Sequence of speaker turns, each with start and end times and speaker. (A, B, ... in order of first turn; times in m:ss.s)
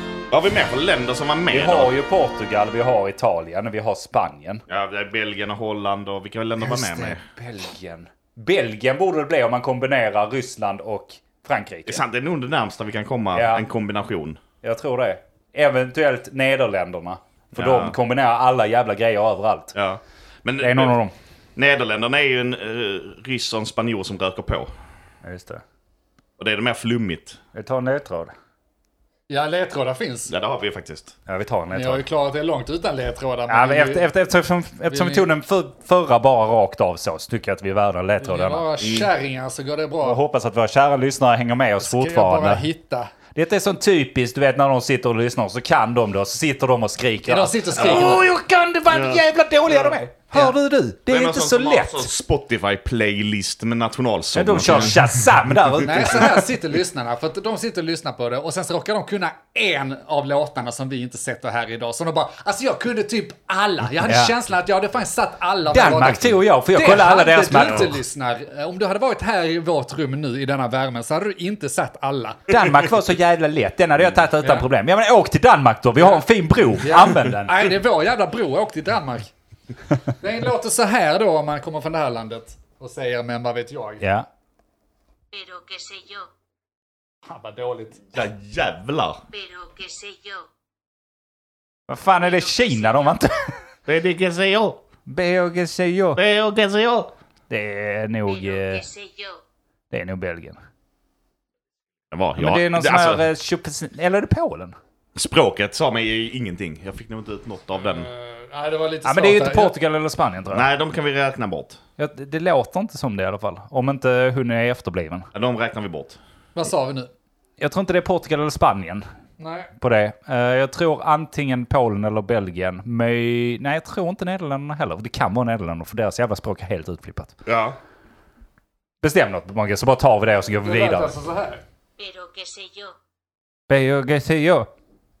0:00.3-0:01.9 A
0:01.5-0:04.6 B
0:04.7-0:07.2 A
0:06.6-0:12.0 B
0:11.8-0:14.4 A
0:13.3-0:13.6 B
0:14.6-0:19.7 B
0:17.5-0:17.9 A
0:19.7-0:21.0 A
0:20.6-0:21.1 B
0:21.6-0:24.7 A
0:25.2-0:25.6 B
0:26.4-0:27.4 A
0:27.5-0:28.3 B
0:29.3-0:30.3 C
0:30.3-0:31.1 A
0:31.3-0:32.0 B
0:31.7-0:34.1 C
0:33.5-0:38.6 B
0:34.9-0:35.3 C
0:38.2-0:40.2 C
0:38.8-0:39.1 A
0:40.0-0:42.6 B
0:41.8-0:43.1 C
0:43.3-0:52.1 B
0:47.2-0:48.2 C
0:48.9-0:49.9 A
0:51.1-0:55.8 A
0:54.3-0:56.5 B
0:55.8-1:12.6 C
1:04.0-1:04.4 B
1:05.7-1:08.0 B
1:12.5-1:17.8 B
1:14.4-1:14.7 C
1:16.8-1:19.3 C
1:20.2-1:24.0 C
1:24.0-1:24.3 B
1:25.3-1:26.3 D
1:27.2-1:28.0 C
1:28.1-1:29.2 A
1:29.3-1:30.5 D
1:31.9-1:33.5 B
1:32.4-1:32.9 D
1:33.9-1:34.8 A
1:35.0-1:36.2 B
1:36.2-1:37.1 A
1:37.5-1:38.8 B
1:38.2-1:39.4 D
1:39.9-1:40.6 B
1:42.1-1:43.2 A
1:42.4-1:44.8 B
1:45.2-1:48.1 A
1:47.8-1:49.8 C
1:49.0-1:50.7 B
1:50.5-1:51.8 A
1:52.0-1:55.3 B
1:55.3-1:56.2 A
1:56.5-1:57.1 C
1:57.6-1:59.0 B
1:59.4-1:59.7 C
1:59.8-2:07.4 B
2:07.4-2:07.8 A
2:09.0-2:11.1 B
2:10.6-2:11.6 C
2:12.0-2:12.9 D
2:13.7-2:14.7 B